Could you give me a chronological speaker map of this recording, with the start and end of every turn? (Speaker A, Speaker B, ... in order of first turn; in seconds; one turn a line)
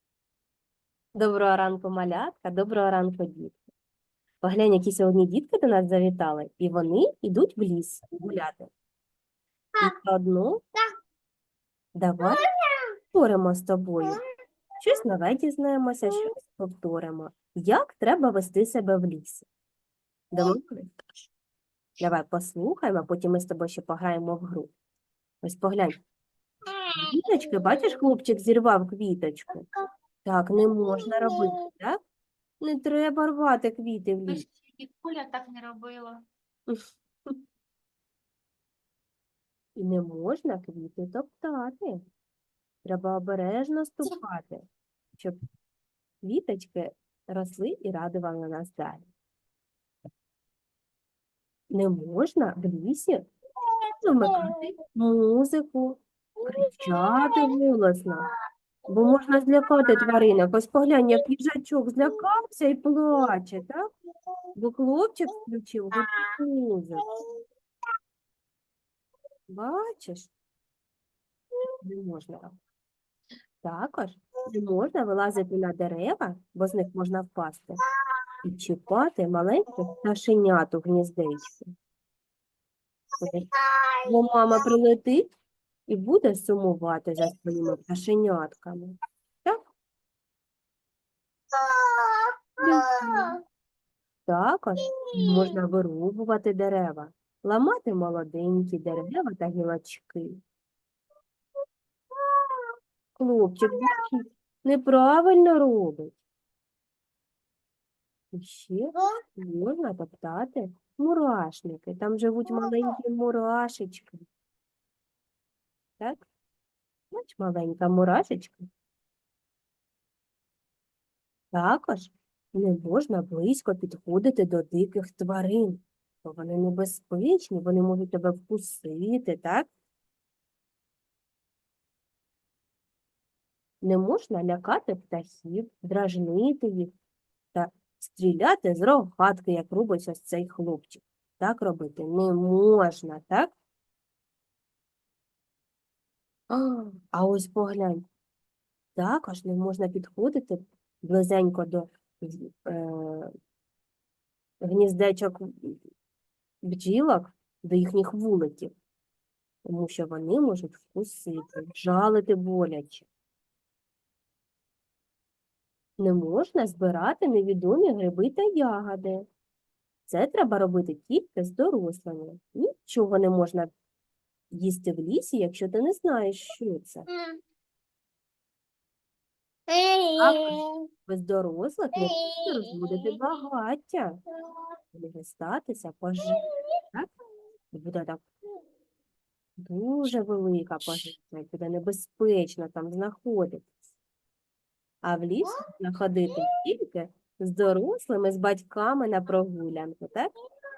Speaker A: 1.1-3.6
Speaker A: 4.4-8.7
Speaker A: 9.8-10.6
Speaker A: 12.0-12.4
Speaker B: 12.3-12.9
Speaker A: 13.1-14.2
Speaker A: 14.8-19.5
Speaker A: 20.3-21.0
Speaker A: 22.0-24.7
Speaker A: 25.4-26.0
Speaker A: 26.9-29.7
Speaker A: 30.2-32.0
Speaker B: 31.1-31.4
Speaker A: 32.6-34.5
Speaker B: 34.3-36.2
Speaker A: 36.7-37.4
Speaker A: 39.8-42.0
Speaker A: 42.9-45.4
Speaker A: 46.2-49.1
Speaker A: 51.7-53.3
Speaker B: 53.6-54.6
Speaker A: 54.0-58.3
Speaker B: 56.4-57.5
Speaker A: 58.9-63.8
Speaker A: 64.6-67.1
Speaker B: 67.1-67.4
Speaker A: 69.5-70.3
Speaker A: 71.8-72.6
Speaker A: 73.6-77.8
Speaker A: 78.4-81.7
Speaker A: 83.2-83.5
Speaker B: 83.5-84.1
Speaker A: 84.0-85.3
Speaker A: 85.9-89.6
Speaker B: 91.5-93.4
Speaker A: 92.6-93.3
Speaker A: 94.3-100.4
Speaker B: 94.9-95.5
Speaker B: 102.1-102.7
Speaker A: 103.2-106.2
Speaker A: 108.3-114.2
Speaker B: 112.5-112.8
Speaker A: 116.0-116.2
Speaker A: 117.1-118.7
Speaker A: 121.5-129.7
Speaker A: 133.8-136.9
Speaker A: 137.5-143.5
Speaker A: 146.5-148.1
Speaker A: 149.0-153.3
Speaker A: 154.6-155.8
Speaker A: 156.7-158.7
Speaker A: 159.7-163.1
Speaker A: 166.0-169.2
Speaker A: 170.1-173.7
Speaker A: 174.5-177.1
Speaker B: 177.1-177.4
Speaker B: 179.7-180.8
Speaker A: 180.2-184.2
Speaker B: 182.0-182.3
Speaker A: 184.9-187.1
Speaker A: 187.7-188.2
Speaker A: 189.6-193.9
Speaker A: 195.0-200.3